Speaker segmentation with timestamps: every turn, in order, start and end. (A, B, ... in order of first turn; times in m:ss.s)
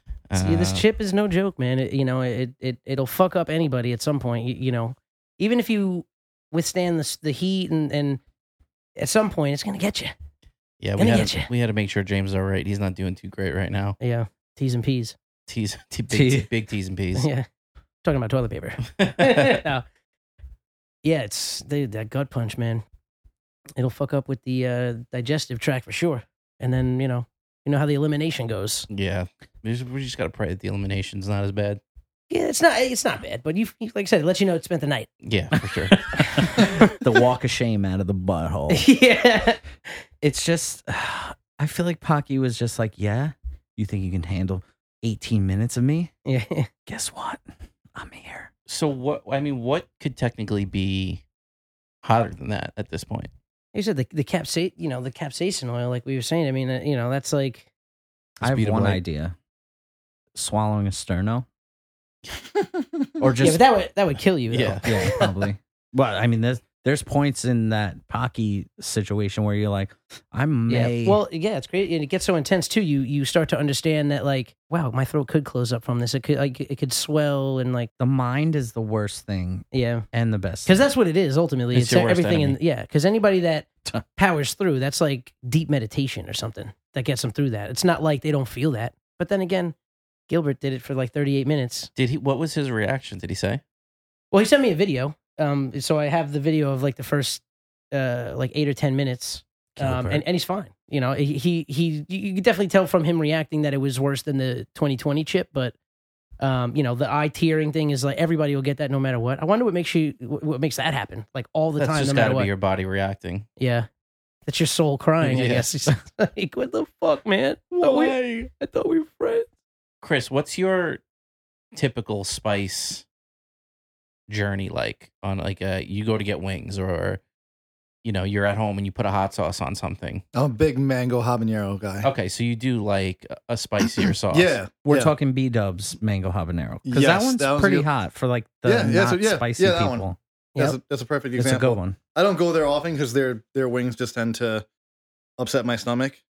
0:00.3-0:00.8 A
0:00.3-0:08.2 B
0:09.0-0:10.1 B
0:10.8-0:14.0 A
0:11.0-0:11.5 B
0:14.0-0:15.2 B
0:15.5-0:17.3 A
0:16.1-0:16.5 C
0:17.1-0:17.4 B
0:18.0-0:19.8 B
0:18.8-0:19.6 A
0:21.0-0:22.8 B
0:23.8-0:28.9 B
0:28.9-0:31.8 A
0:32.3-0:35.1 B
0:35.2-0:36.1 A
0:35.6-0:36.4 C
0:36.2-0:36.9 B
0:37.0-0:38.8 C
0:38.7-0:39.6 B
0:40.2-0:46.1 C
0:46.2-0:46.7 B
0:46.9-0:47.4 C
0:47.9-0:48.5 C
0:48.7-0:51.2 A
0:52.0-0:53.3 A
0:53.7-0:57.7 B
0:58.4-0:59.0 A
0:58.4-0:59.4 C
1:00.3-1:01.4 C
1:03.2-1:03.6 C
1:03.4-1:05.1 B
1:04.5-1:04.9 A
1:04.8-1:11.2 C
1:10.7-1:17.9 B
1:18.0-1:20.7 C
1:19.7-1:20.0 B
1:20.6-1:29.7 B
1:21.7-1:22.6 A
1:30.3-1:31.9 B
1:32.0-1:33.6 A
1:34.3-1:45.7 B
1:39.8-1:40.2 C
1:46.4-1:52.5 B
1:51.8-1:53.5 A
1:53.6-1:53.9 B
1:54.5-1:59.5 B
1:55.2-1:55.8 A
1:57.7-1:58.5 A
2:00.0-2:01.0 A
2:01.7-2:03.0 A
2:04.3-2:07.2 A
2:08.0-2:10.2 A
2:10.3-2:12.1 D
2:12.0-2:14.6 A
2:14.0-2:15.1 D
2:14.8-2:20.2 C
2:16.8-2:17.9 D
2:18.6-2:24.6 D
2:21.4-2:22.0 C
2:25.4-2:26.2 D